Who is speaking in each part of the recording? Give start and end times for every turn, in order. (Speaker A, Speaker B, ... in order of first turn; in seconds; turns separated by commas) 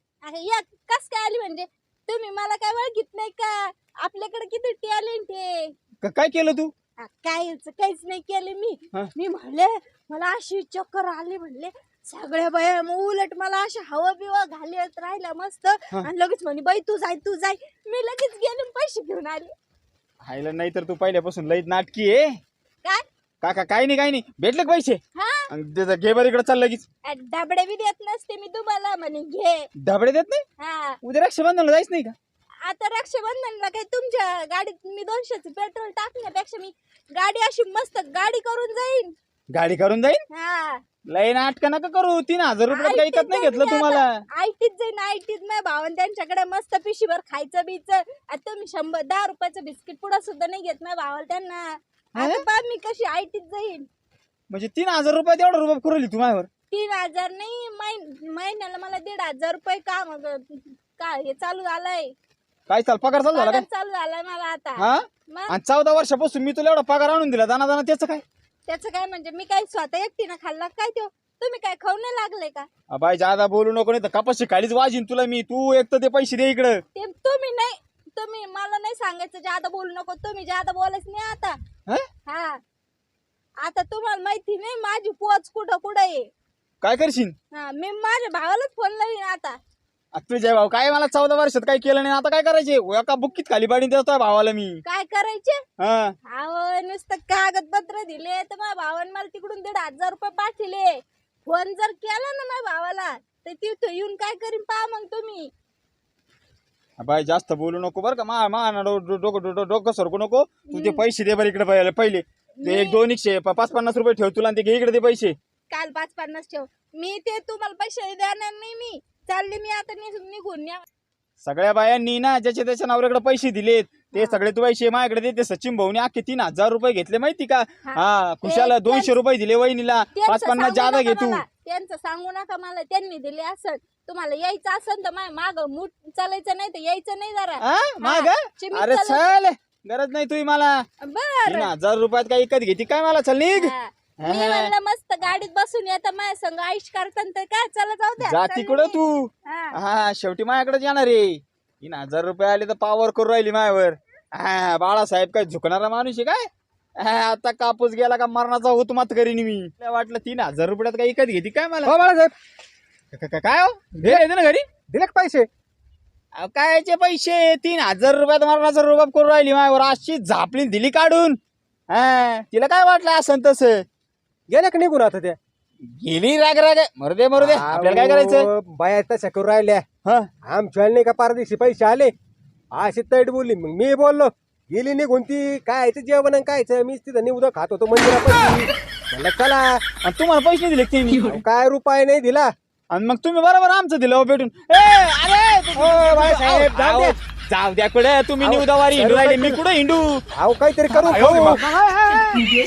Speaker A: 0.2-5.7, Speaker B: 6.0-6.7, Speaker A: 7.0-19.5, Speaker B: 20.2-22.4, Speaker B: 23.4-26.9, Speaker A: 25.1-25.5, Speaker A: 27.1-29.7, Speaker B: 29.8-30.4, Speaker A: 30.6-31.0, Speaker B: 31.0-32.1, Speaker A: 32.6-39.1, Speaker B: 39.5-40.2, Speaker A: 40.3-40.8, Speaker B: 41.1-44.2, Speaker A: 42.7-53.9, Speaker B: 52.1-52.5, Speaker B: 54.5-56.5, Speaker A: 56.7-62.1, Speaker B: 62.7-63.6, Speaker A: 63.3-65.5, Speaker B: 64.8-68.2, Speaker A: 68.7-72.7, Speaker B: 72.9-76.8, Speaker A: 76.9-81.6, Speaker A: 82.3-82.6, Speaker A: 83.6-86.3, Speaker B: 86.8-87.3, Speaker A: 87.5-89.6, Speaker B: 90.1-94.8, Speaker A: 94.8-95.6, Speaker B: 95.8-96.2, Speaker A: 96.3-105.5, Speaker B: 107.0-115.4, Speaker A: 110.7-111.0, Speaker A: 112.6-113.0, Speaker A: 115.7-120.9, Speaker B: 121.4-131.4, Speaker A: 124.1-124.4, Speaker A: 127.9-129.1, Speaker A: 130.2-139.4, Speaker B: 137.6-140.9, Speaker A: 141.0-141.7, Speaker B: 141.5-144.7, Speaker A: 143.6-149.8, Speaker B: 148.2-156.5, Speaker B: 157.0-161.9, Speaker C: 161.8-162.3, Speaker B: 163.1-164.7, Speaker C: 164.0-164.3, Speaker C: 164.9-165.5, Speaker B: 166.3-171.4, Speaker B: 171.9-173.8, Speaker C: 174.5-175.4, Speaker B: 175.9-178.5, Speaker C: 177.3-179.8, Speaker C: 180.4-182.1, Speaker C: 182.7-189.8, Speaker B: 190.0-191.3, Speaker C: 191.2-192.5, Speaker B: 192.9-200.2, Speaker C: 195.8-197.2, Speaker C: 198.4-199.6, Speaker C: 200.3-201.6, Speaker B: 200.9-202.5